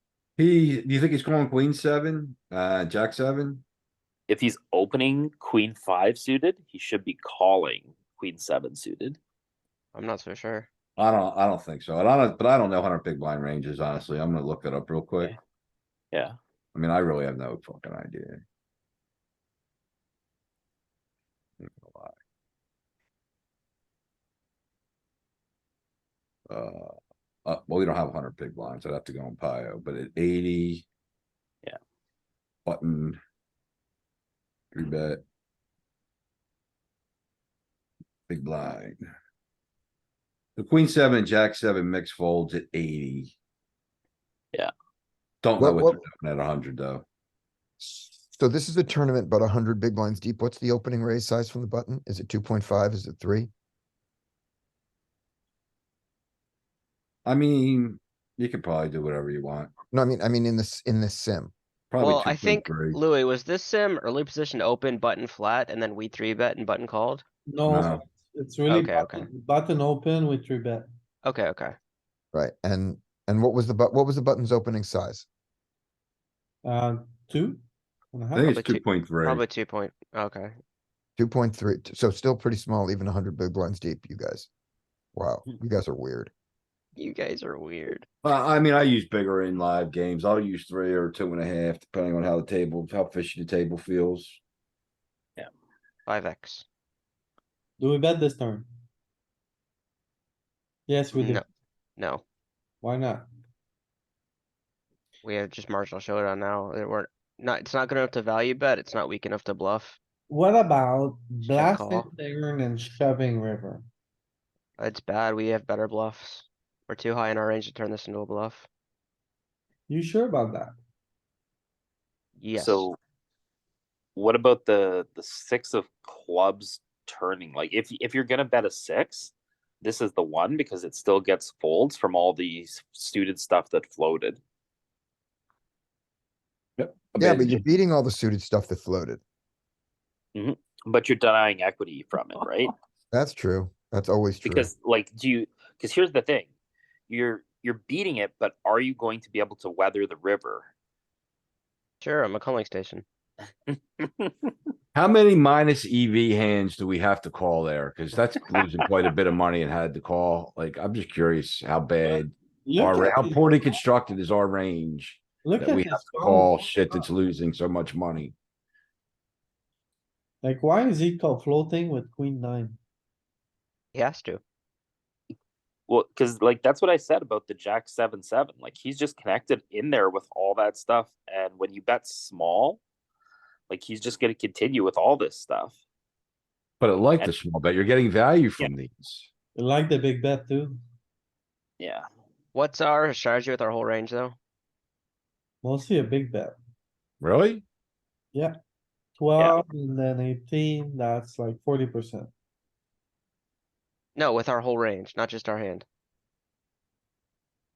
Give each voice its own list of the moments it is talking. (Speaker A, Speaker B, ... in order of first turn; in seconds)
Speaker A: 0.4-3.6, 11.0-15.3, 16.8-18.4, 21.6-22.2, 26.5-30.9, 32.7-33.2, 34.7-35.2, 38.3-39.0, 40.6-43.4, 45.4-47.0, 57.2-59.7, 61.9-63.0, 67.6-68.0, 78.3-79.4, 88.2-94.4, 136.8-137.6, 154.9-168.3, 186.8-189.3, 197.2-197.6
Speaker B: 4.3-9.2, 122.5-123.0, 124.2-134.4, 140.3-142.7, 144.4-146.5, 147.1-150.7, 153.7-154.3, 175.9-182.8, 183.7-185.8, 191.8-192.1, 199.4-199.6
Speaker C: 9.9-10.7, 62.0-67.2, 68.7-69.3, 71.2-71.8, 78.5-80.5, 87.0-88.1, 96.1-96.7, 101.1-101.5, 102.0-102.2, 105.2-110.0, 111.5-112.1, 114.8-118.7, 122.4-122.9, 152.0-153.1, 173.9-174.4, 192.5-194.4, 204.2-205.8
Speaker D: 45.6-46.0, 47.8-53.5, 59.9-61.5, 72.3-75.3, 81.2-84.5, 85.2-86.3, 137.2-139.2, 143.1-144.7
Speaker E: 67.5-70.8, 76.7-77.6, 78.1-78.4, 97.8-98.7, 100.9-101.4, 102.8-103.2, 110.3-113.8, 119.9-120.7, 162.7-163.3, 165.4-166.5, 170.4-172.8, 189.6-190.8, 195.6-196.6, 199.2-202.3